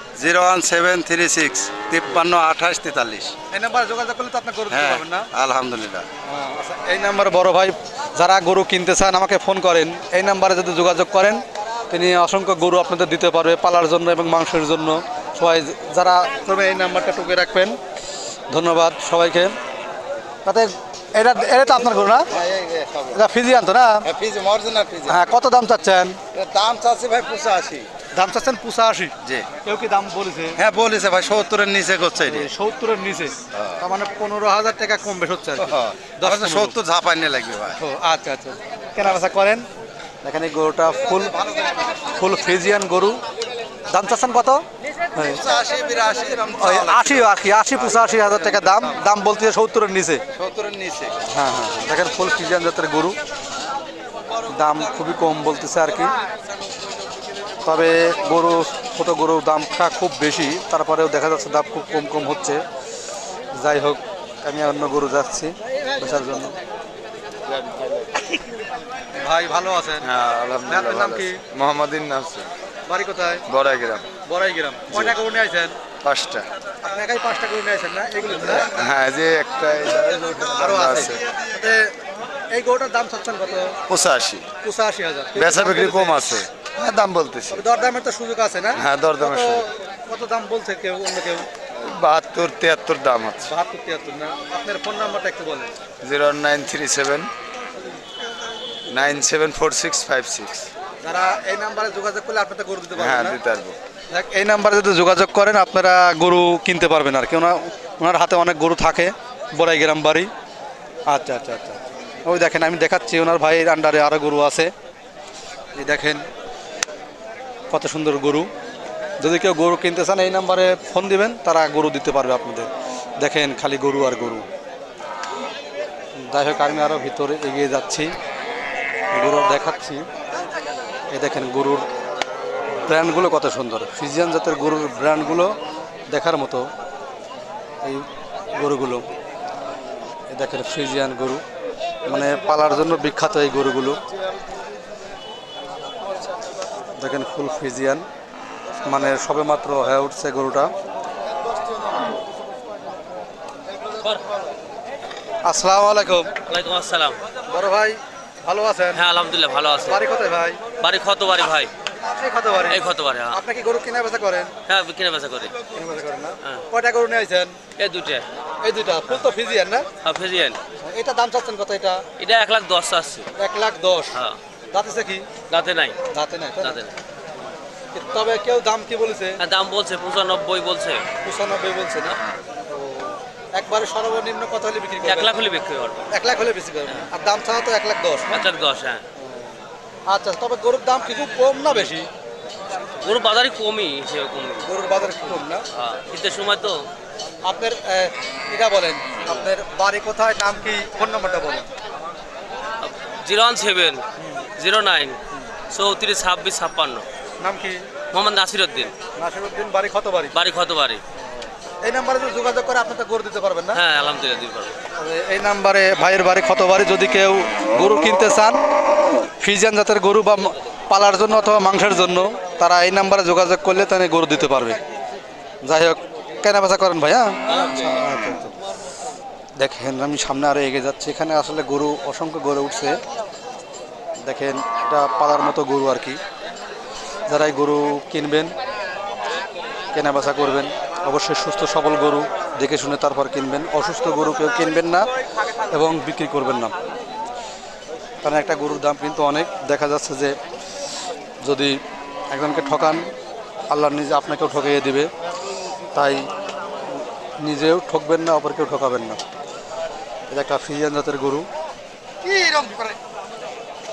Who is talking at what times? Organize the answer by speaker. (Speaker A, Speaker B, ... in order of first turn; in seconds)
Speaker A: 0.2-3.3, 4.7-6.0, 22.3-23.2, 24.0-25.2, 26.3-27.9, 30.6-32.5, 33.5-33.8, 35.6-37.8, 41.5-41.8, 45.3-48.9, 50.3-51.1, 67.5-68.2, 70.0-72.5, 73.5-74.1, 74.9-75.2, 76.0-76.4, 78.4-81.2, 83.9-84.5, 85.3-87.6, 88.8-89.7, 91.8-93.5, 96.0-97.3, 98.9-100.7, 103.0-103.8
Speaker B: 3.5-5.3, 6.2-17.8, 18.5-19.5, 20.4-22.3, 23.1-24.0, 25.1-26.2, 28.1-30.6, 32.2-36.8, 37.8-39.6, 40.2-41.3, 42.0-43.2, 43.9-44.6, 45.1-45.4, 46.6-50.2, 51.3-53.1, 54.5-56.1, 57.6-62.6, 63.5-66.5, 69.2-70.1, 70.7-71.4, 72.9-73.4, 74.2-75.8, 76.8-78.7, 80.5-81.9, 82.5-83.8, 84.6-86.3, 87.5-91.5, 93.4-95.7, 101.0-103.4, 104.1-110.3, 111.1-114.7, 115.8-116.2, 117.7-118.5, 119.2-122.7, 123.2-124.4, 126.2-128.1, 129.1-130.0, 131.1-131.8, 132.8-135.5, 136.1-136.7, 138.6-139.0, 140.3-141.4, 142.1-144.0, 147.0-148.0, 148.8-150.7, 155.4-156.3, 157.5-159.0, 159.8-160.6, 162.1-164.5, 165.7-167.6, 168.6-169.8, 170.8-172.0, 173.4-174.1, 174.7-175.2, 176.1-176.8, 177.9-179.4, 181.2-182.2, 182.7-185.4, 186.1-188.4, 190.1-192.1, 194.6-195.6, 197.4-201.7, 204.2-204.4, 207.4-207.8, 209.2-210.3, 211.8-213.8, 215.0-218.6, 219.4-224.8, 225.6-228.5, 229.6-233.0, 234.2-236.2, 237.3-238.5, 239.9-245.1, 245.7-246.7, 248.2-250.3, 251.4-251.7, 252.3-253.0, 253.7-255.1, 255.9-256.2, 256.9-259.2, 260.3-261.4
Speaker C: 156.5-157.2, 158.9-160.0, 160.8-161.7, 162.7-163.4, 164.7-165.5, 167.8-168.2, 170.0-170.6, 172.2-173.3, 175.5-176.0, 176.6-176.9, 179.4-181.1, 185.0-186.1, 188.3-189.0, 193.0-194.7, 195.7-196.8, 202.8-204.0, 204.6-205.2, 205.7-207.1, 208.1-208.9, 210.3-211.0, 213.7-214.8